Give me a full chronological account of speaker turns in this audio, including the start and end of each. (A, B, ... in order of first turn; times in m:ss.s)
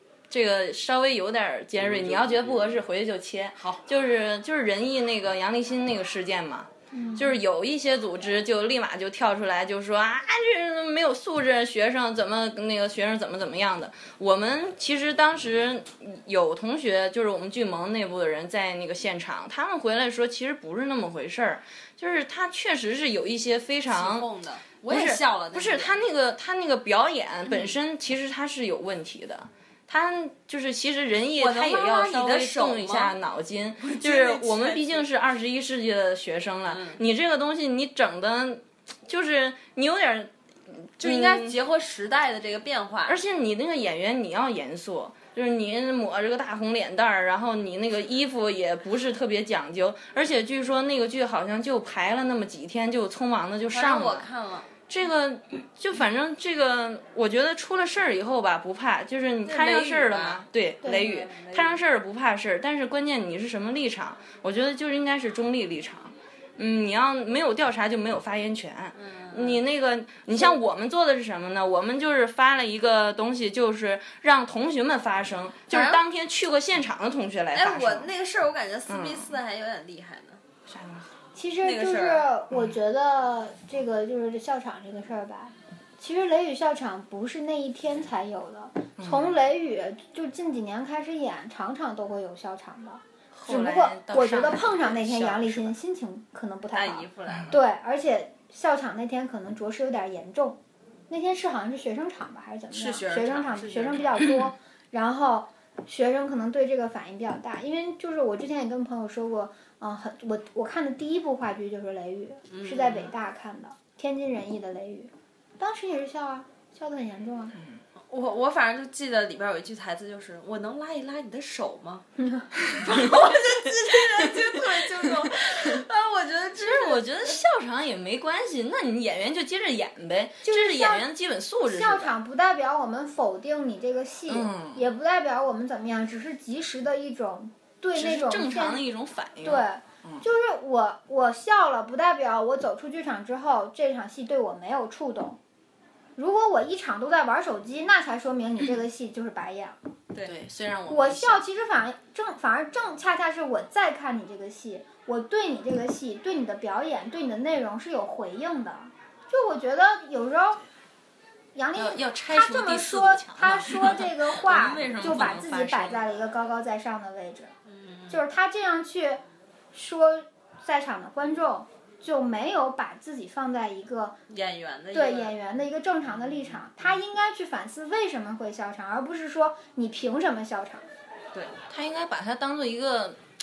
0:00.3-0:24.3 A
0:03.6-0:03.8 B
0:06.9-0:07.4 C
0:23.9-0:26.0 B
0:24.9-0:41.5 A
0:31.3-0:33.2 B
0:33.8-0:35.0 B
0:36.7-0:37.0 B
0:41.0-0:43.2 B
0:43.0-0:54.3 A
0:53.7-0:54.7 B
0:54.9-1:18.1 A
0:59.4-1:01.8 B
1:08.9-1:09.6 B
1:10.3-1:10.6 B
1:15.7-1:16.0 B
1:17.5-1:20.4 B
1:18.9-1:19.3 A
1:20.7-1:21.1 A
1:21.3-1:57.6 C
1:21.6-1:22.3 B
1:29.0-1:29.4 A
1:33.3-1:35.8 A
1:36.7-1:37.6 B
1:42.7-1:44.2 B
1:52.5-1:53.1 B
1:57.6-1:57.8 A
1:58.1-2:02.0 B
2:02.2-2:02.5 C
2:02.7-2:07.4 B
2:06.6-2:12.1 A
2:10.4-2:11.1 C
2:11.6-2:18.8 C
2:14.3-2:14.8 A
2:17.9-2:20.2 A
2:19.4-2:25.4 C
2:26.2-2:29.8 C
2:30.2-2:31.4 A
2:30.9-2:40.6 C
2:41.5-2:47.5 C
2:41.7-2:46.0 A
2:47.7-2:48.2 B
2:48.1-2:49.2 C
2:49.7-2:54.2 C
2:54.3-2:55.4 B
2:54.9-3:00.9 C
3:01.7-3:03.2 A